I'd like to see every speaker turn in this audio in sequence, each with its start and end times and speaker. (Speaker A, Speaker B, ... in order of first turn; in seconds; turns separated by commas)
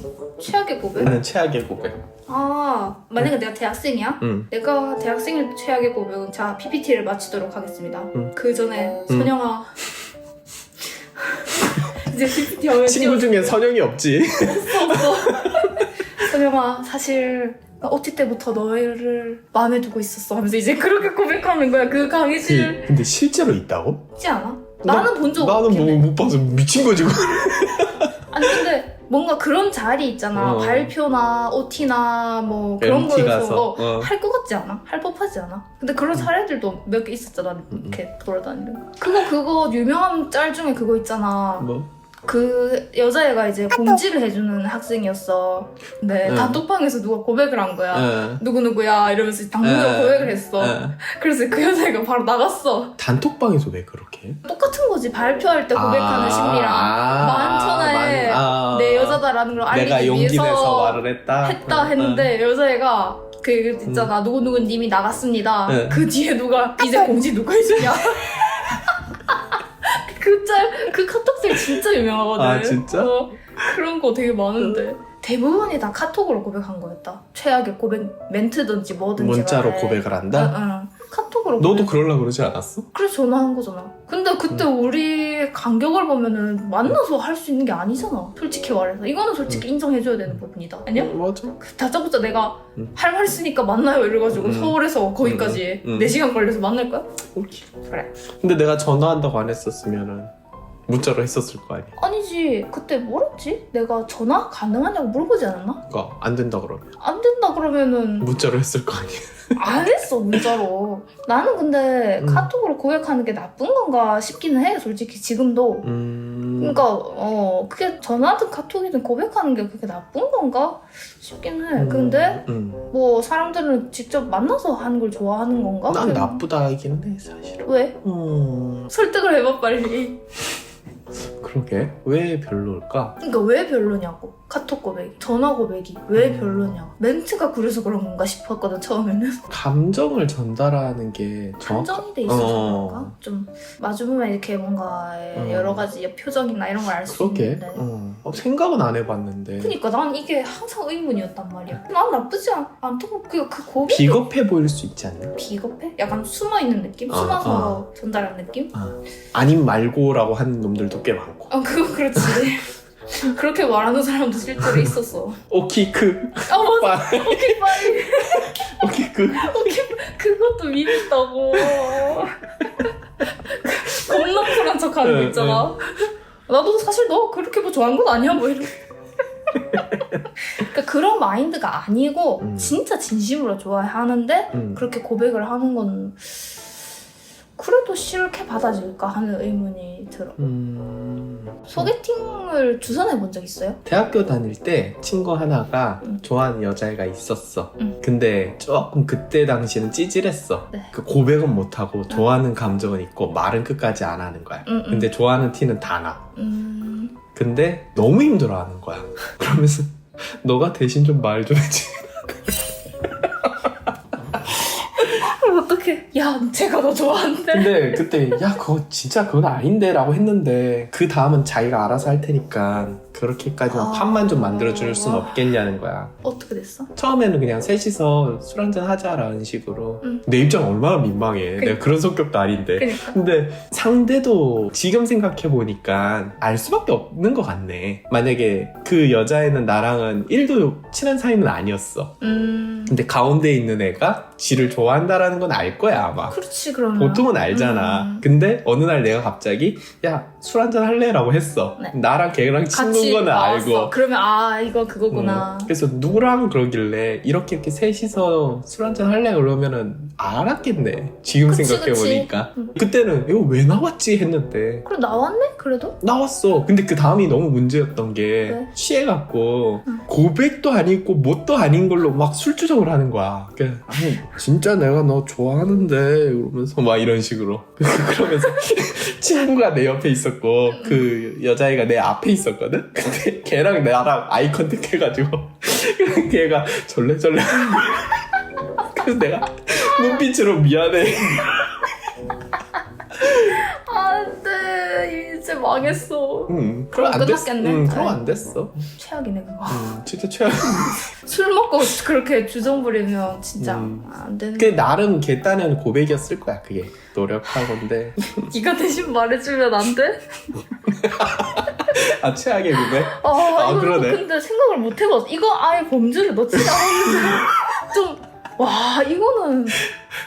Speaker A: 0.4-1.1, Speaker B: 1.0-2.0, Speaker A: 2.3-9.7, Speaker B: 4.2-4.5, Speaker A: 11.2-13.6, Speaker B: 12.8-15.9, Speaker A: 14.4-22.9, Speaker B: 22.4-24.0, Speaker A: 24.2-26.1, Speaker B: 24.8-28.6, Speaker A: 28.3-41.7, Speaker B: 30.4-30.9, Speaker B: 32.8-34.1, Speaker B: 37.7-38.0, Speaker B: 41.6-41.9, Speaker A: 42.3-53.0, Speaker B: 46.2-46.6, Speaker B: 47.9-48.4, Speaker B: 49.6-51.0, Speaker B: 53.0-54.4, Speaker A: 54.4-81.9, Speaker B: 55.7-62.3, Speaker B: 63.9-64.1, Speaker B: 65.7-66.1, Speaker B: 72.4-73.7, Speaker B: 79.2-80.5, Speaker B: 81.6-82.9, Speaker A: 82.9-97.1, Speaker B: 91.0-91.6, Speaker B: 94.3-96.2, Speaker B: 97.3-97.7, Speaker A: 97.8-98.1, Speaker B: 98.4-100.3, Speaker B: 100.9-102.0, Speaker A: 102.0-105.8, Speaker B: 105.9-106.9, Speaker A: 107.0-108.3, Speaker B: 108.2-109.8, Speaker A: 109.6-115.9, Speaker B: 112.2-112.5, Speaker B: 115.8-116.8, Speaker A: 116.6-126.4, Speaker B: 121.8-122.8, Speaker B: 125.9-128.9, Speaker A: 127.7-128.0, Speaker A: 128.9-130.2, Speaker B: 131.4-133.2, Speaker A: 133.2-139.5, Speaker B: 136.2-136.8, Speaker B: 139.5-143.1, Speaker A: 141.6-147.8, Speaker B: 145.3-145.9, Speaker B: 147.1-149.8, Speaker A: 149.6-154.3, Speaker B: 153.9-155.3, Speaker A: 155.4-158.7, Speaker B: 157.1-157.8, Speaker B: 158.7-161.5, Speaker A: 161.5-165.4, Speaker B: 162.2-162.4, Speaker B: 165.5-169.9, Speaker A: 166.5-172.9, Speaker B: 171.6-172.2, Speaker A: 173.4-178.8, Speaker B: 174.1-174.4, Speaker B: 175.0-175.7, Speaker A: 180.5-186.6, Speaker B: 182.4-182.8, Speaker B: 184.5-184.8, Speaker A: 187.6-190.4, Speaker B: 190.4-191.9, Speaker A: 191.7-193.8, Speaker B: 193.8-206.3, Speaker A: 204.7-205.1, Speaker A: 206.4-207.2, Speaker B: 207.3-212.5, Speaker A: 215.0-218.6, Speaker B: 217.5-226.2, Speaker A: 223.7-225.5, Speaker A: 226.2-226.9, Speaker B: 226.9-242.1, Speaker A: 232.8-233.2, Speaker A: 242.2-242.9, Speaker B: 242.9-246.4, Speaker A: 246.3-248.3, Speaker B: 247.0-253.9, Speaker A: 252.7-255.7, Speaker B: 255.1-264.9, Speaker A: 261.5-262.8, Speaker A: 264.9-266.0, Speaker B: 266.0-288.3, Speaker A: 280.7-281.1, Speaker B: 288.8-291.9, Speaker A: 289.9-290.2, Speaker A: 293.2-300.0, Speaker B: 296.5-298.9, Speaker B: 299.7-301.1, Speaker A: 300.8-304.8, Speaker B: 303.6-308.5, Speaker A: 308.4-310.6, Speaker B: 310.9-314.2, Speaker A: 313.1-319.8, Speaker B: 316.6-317.6